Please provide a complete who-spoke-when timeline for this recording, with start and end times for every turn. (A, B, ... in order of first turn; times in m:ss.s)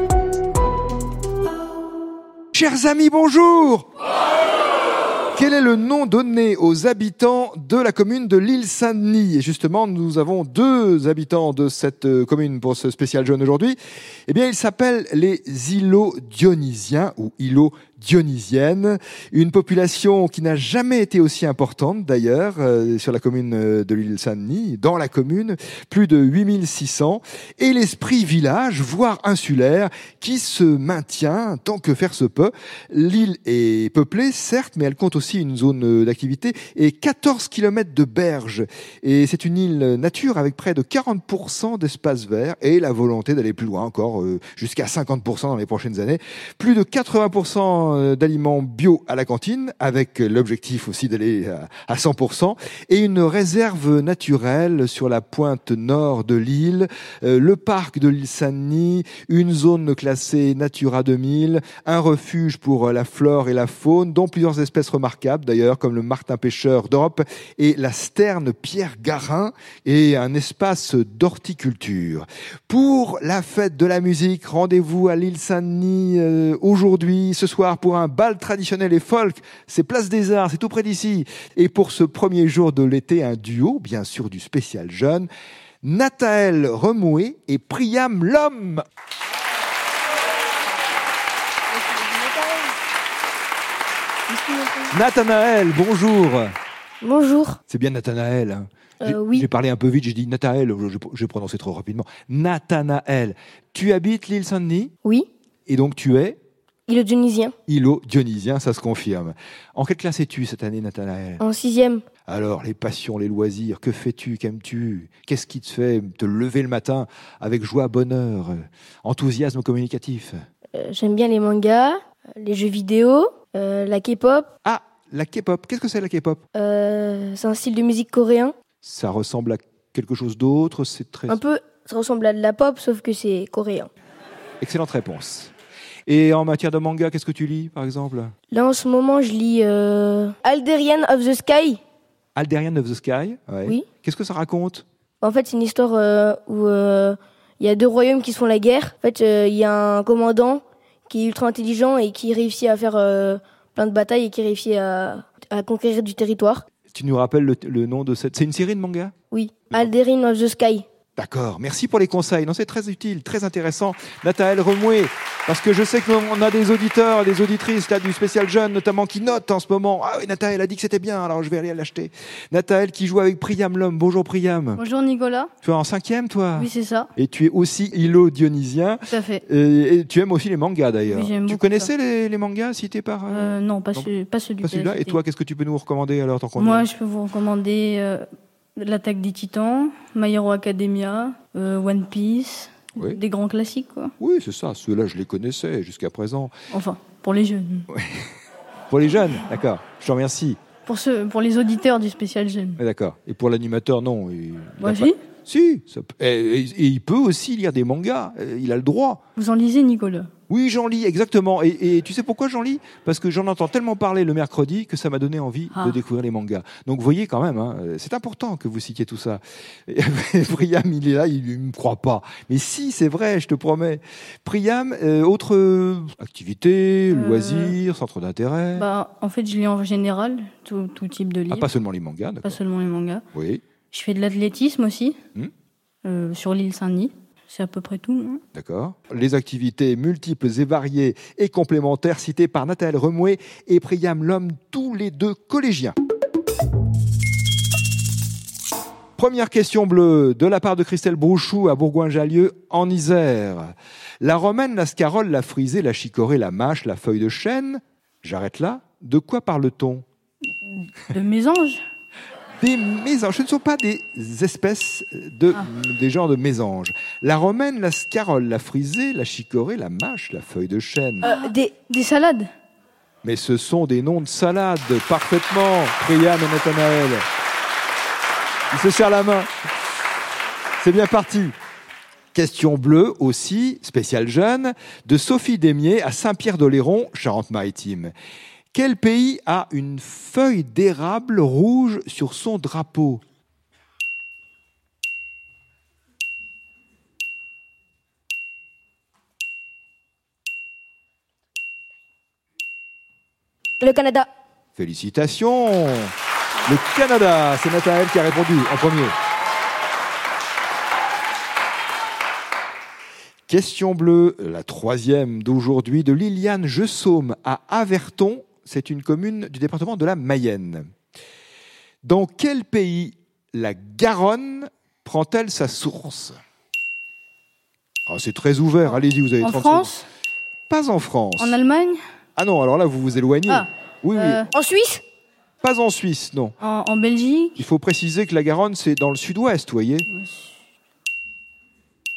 0:02.5-0:03.9 A
0:05.4-1:25.3 A
1:25.8-1:28.8 A
1:31.7-1:32.8 B
1:34.3-1:35.0 B
1:34.9-1:36.5 A
1:37.0-1:37.6 B
1:37.7-1:44.9 A
1:39.0-1:39.5 B
1:45.7-1:46.4 A
1:46.9-1:47.5 B
1:47.7-1:51.4 A
1:51.4-1:52.0 B
1:52.3-2:00.4 A
2:00.7-2:04.5 B
2:04.6-2:06.4 A
2:06.6-2:08.6 B
2:08.8-2:11.4 A
2:11.3-2:13.9 B
2:14.6-2:15.5 A
2:16.1-2:18.3 A
2:18.5-2:21.8 B
2:22.4-2:24.8 A
2:25.2-2:36.6 B
2:36.9-2:39.1 A
2:39.3-2:40.9 B
2:41.2-2:54.8 A
2:54.8-2:55.5 C
2:55.6-3:04.1 A
2:56.6-2:57.1 C
2:59.1-2:59.4 C
3:01.1-3:01.9 C
3:03.3-3:05.2 C
3:04.6-3:06.9 A
3:06.6-3:08.3 C
3:08.8-3:14.1 C
3:14.2-3:16.5 A
3:16.7-3:17.9 C
3:17.9-3:18.2 A
3:18.9-3:20.6 A
3:20.9-3:22.8 C
3:22.8-3:29.2 A
3:24.8-3:25.2 C
3:29.4-3:30.3 C
3:30.5-3:48.9 A
3:47.1-3:47.8 C
3:48.8-3:51.7 C
3:51.5-3:52.6 A
3:52.4-3:53.2 C
3:53.3-3:53.6 A
3:53.9-3:55.2 C
3:56.0-3:58.4 C
3:58.6-4:06.0 A
4:09.2-4:20.0 A
4:20.6-4:21.8 C
4:22.6-4:31.3 A
4:31.2-4:31.7 B
4:31.3-4:32.5 C
4:33.2-4:37.2 A
4:38.7-4:39.5 A
4:40.8-4:41.5 A
4:42.3-4:48.1 A
4:48.7-4:53.2 A
5:03.8-5:04.3 B
5:04.8-5:06.1 A
5:06.7-5:09.2 A
5:13.5-5:20.9 A
5:22.0-5:26.4 A
5:28.1-5:29.9 A
5:29.4-5:30.1 C
5:30.7-5:31.6 A
5:31.4-5:32.0 C
5:32.4-5:34.5 A
5:33.5-5:34.5 C
5:34.5-5:35.0 B
5:35.6-5:36.6 A
5:36.6-5:37.7 C
5:37.6-5:40.1 A
5:40.1-5:40.5 C